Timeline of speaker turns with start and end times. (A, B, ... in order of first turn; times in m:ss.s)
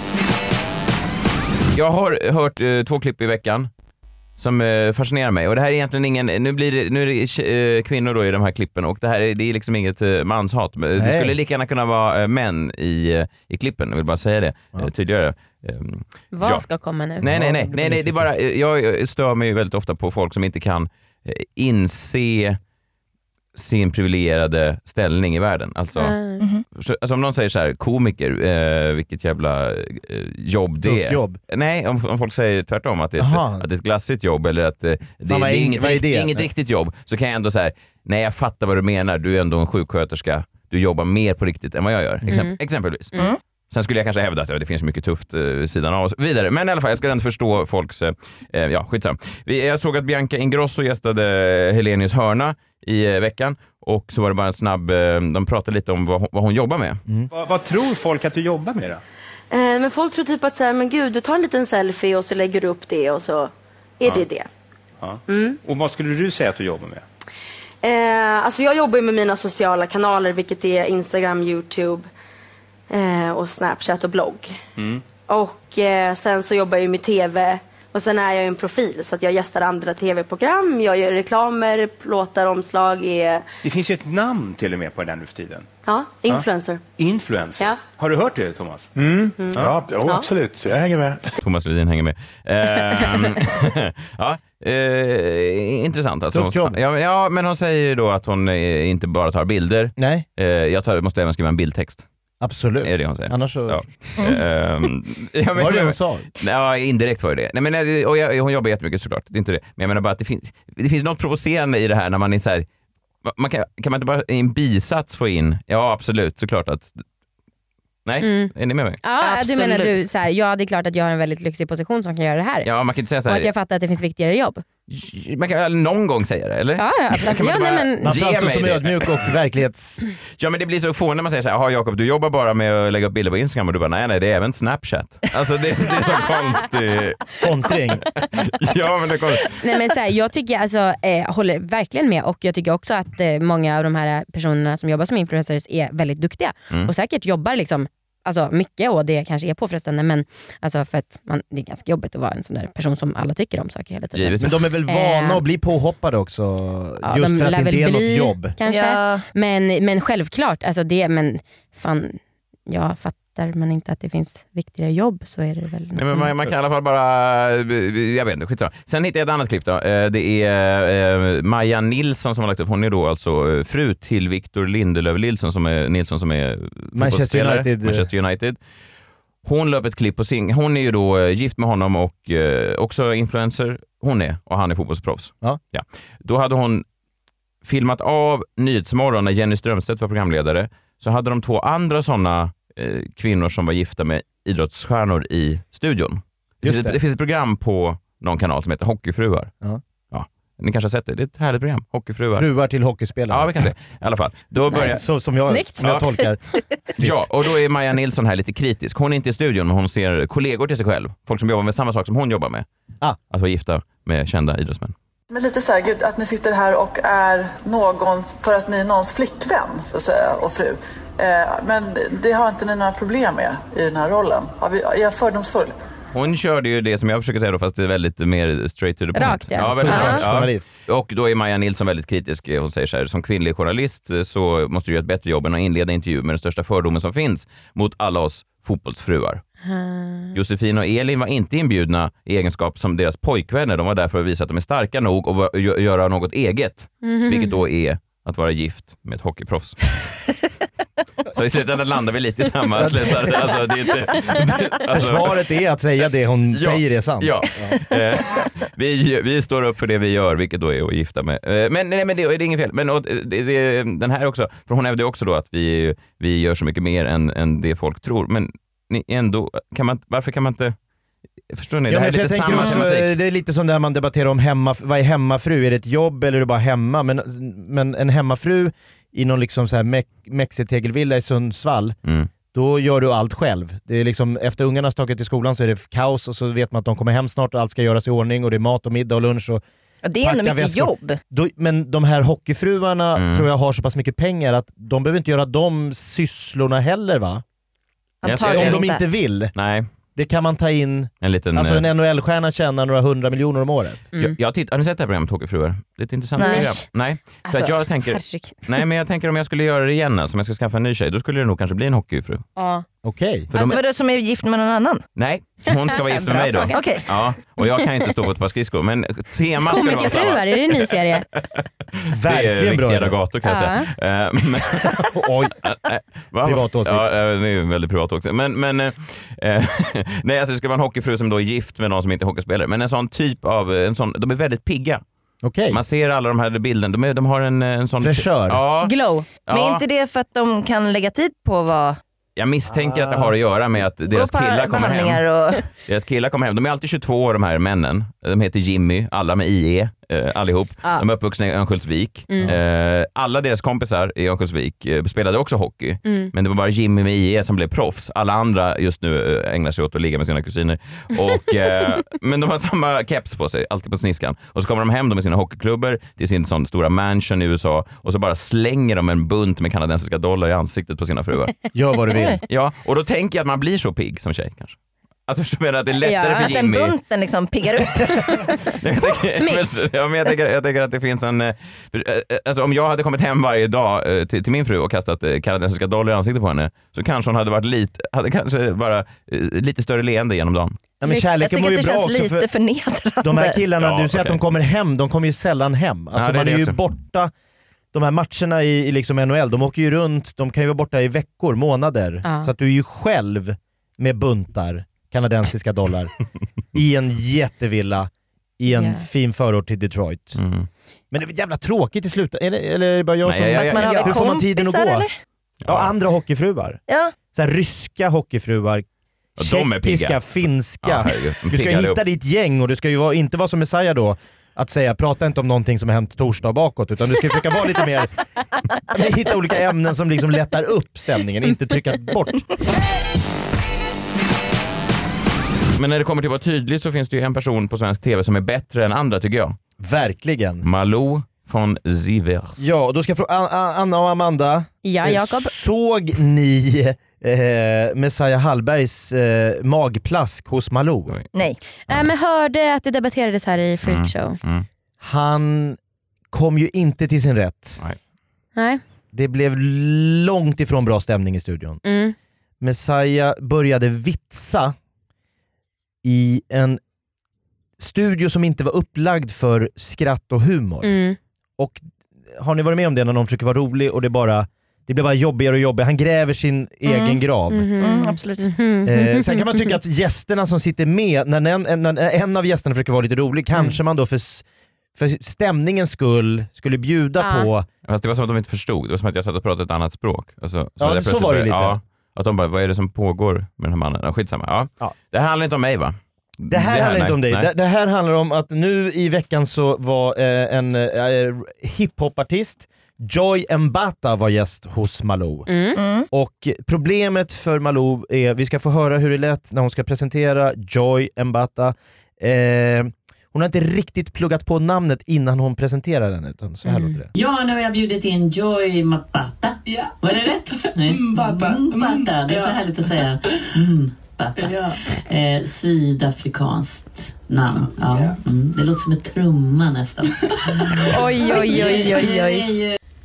0:01.7-0:03.7 A
0:04.4-0:16.6 A
0:11.0-0:11.3 B
0:16.3-0:17.2 C
0:17.2-0:22.6 A
0:17.2-0:18.3 B
0:23.5-0:26.1 A
0:26.0-0:26.4 C
0:26.4-0:26.6 D
0:26.7-0:43.1 A
0:30.8-0:31.4 B
0:33.2-0:33.6 B
0:35.2-0:36.5 B
0:42.3-0:42.6 C
0:43.7-0:57.0 A
0:57.3-0:59.0 E
0:59.5-1:04.5 F
1:05.0-1:07.0 E
1:05.3-1:05.6 F
1:07.8-1:12.1 F
1:12.9-1:14.6 F
1:14.8-1:15.0 E
1:15.2-1:23.4 F
1:23.6-1:25.7 E
1:25.8-1:26.8 F
1:27.0-1:28.9 E
1:29.0-1:31.2 G
1:29.4-1:30.3 F
1:31.4-1:42.0 A
1:36.3-1:36.8 B
1:40.0-1:40.2 B
1:42.4-1:43.8 B
1:42.8-1:52.6 A
1:45.5-1:46.3 B
1:53.2-1:57.0 A
1:58.0-1:59.0 A
1:58.2-1:58.5 C
1:59.0-2:02.7 C
1:59.2-2:00.0 D
2:02.6-2:03.5 A
2:03.2-2:04.6 C
2:04.9-2:09.3 A
2:06.8-2:08.1 C
2:08.0-2:10.0 B
2:10.4-2:19.6 A
2:17.4-2:18.1 B
2:19.6-2:35.4 C
2:34.1-2:34.6 A
2:34.4-2:38.5 B
2:37.0-2:46.3 C
2:38.6-2:39.2 D
2:45.9-2:58.6 A
2:56.9-2:58.1 B
2:59.4-3:06.8 A
3:07.6-3:19.5 A
3:16.6-3:17.0 B
3:20.1-3:22.5 A
3:22.3-3:23.7 B
3:23.3-3:25.0 A
3:24.7-3:26.4 B
3:25.4-3:25.9 C
3:27.0-3:27.2 B
3:27.0-3:32.6 A
3:33.3-3:34.9 A
3:35.3-3:45.8 H
3:46.1-3:59.4 A
3:49.1-3:50.2 C
3:49.6-3:50.6 B
3:49.9-3:50.2 D
3:59.6-4:00.3 C
4:00.3-4:10.1 A
4:07.0-4:07.6 C
4:11.3-4:15.3 A
4:12.8-4:13.6 B
4:14.9-4:17.8 B
4:16.5-4:30.7 A
4:31.5-4:33.1 A
4:31.9-4:42.0 B
4:42.0-4:42.3 A
4:42.5-4:49.6 B
4:50.0-4:51.2 D
4:50.2-4:57.4 B
4:53.1-4:53.5 A
4:58.2-4:59.0 D
4:58.2-4:58.8 A
4:58.4-4:59.5 B
4:59.5-4:59.9 A
5:00.1-5:04.1 B
5:01.2-5:01.8 A
5:04.2-5:12.4 A
5:06.4-5:06.7 D
5:06.4-5:08.7 C
5:12.6-5:12.8 C
5:13.0-5:13.5 B
5:13.5-5:13.8 A
5:13.6-5:15.0 D
5:15.2-5:25.1 A
5:15.7-5:16.9 C
5:16.7-5:17.1 D
5:19.7-5:21.2 C
5:22.1-5:23.2 B
5:23.4-5:23.9 C
5:24.9-5:25.6 B
5:25.6-5:35.0 A
5:26.4-5:27.0 B
5:35.4-5:35.8 B
5:35.7-5:38.9 A
5:38.0-5:38.6 B
5:38.8-5:39.2 C
5:39.5-5:39.8 A
5:39.5-5:42.0 D
5:42.4-5:45.2 A
5:42.8-5:43.3 B
5:44.1-5:45.7 D
5:45.8-6:11.5 A
5:56.0-5:56.3 C
6:11.7-6:12.4 B
6:12.5-6:16.9 A
6:16.0-6:16.5 C
6:16.4-6:18.2 D
6:18.6-6:30.8 A
6:19.3-6:19.8 C
6:31.0-6:32.5 B
6:31.1-6:33.6 D
6:33.2-6:37.3 B
6:33.8-6:34.4 A
6:36.1-6:36.8 A
6:37.9-6:46.1 B
6:42.2-6:42.5 C
6:46.7-6:50.4 B
6:48.7-6:49.0 C
6:50.3-6:50.7 A
6:51.1-6:55.1 B
6:53.2-6:54.2 A
6:53.5-6:55.1 D
6:55.6-6:55.9 A
6:55.6-6:56.8 B
6:56.9-6:57.1 D
6:57.3-6:58.8 B
6:59.4-7:00.2 A
6:59.4-7:08.1 B
7:00.8-7:02.0 A
7:08.8-7:12.6 B
7:15.8-7:19.6 A
7:19.8-7:20.6 B
7:20.6-7:22.7 A
7:22.6-7:31.2 B
7:24.8-7:25.5 C
7:31.9-7:34.4 C
7:33.8-7:34.6 A
7:35.0-7:35.8 B
7:36.3-7:37.8 B
7:38.6-7:38.8 C
7:39.1-7:41.8 B
7:41.8-7:42.1 C
7:42.6-7:44.7 B
7:46.0-7:46.8 B
7:47.8-7:50.9 B
7:50.8-7:51.2 C
7:51.6-7:57.7 B
7:56.9-7:59.8 C
7:57.8-7:58.5 D
7:58.8-8:04.4 B
8:05.0-8:07.7 B
8:07.2-8:07.5 C
8:07.9-8:17.5 A
8:10.8-8:11.8 B
8:16.5-8:25.5 B
8:25.5-8:25.8 C
8:25.8-8:26.1 D
8:26.1-8:37.1 B
8:36.6-8:37.0 C
8:37.1-8:52.8 I
8:41.0-8:41.9 H
8:50.9-8:52.5 C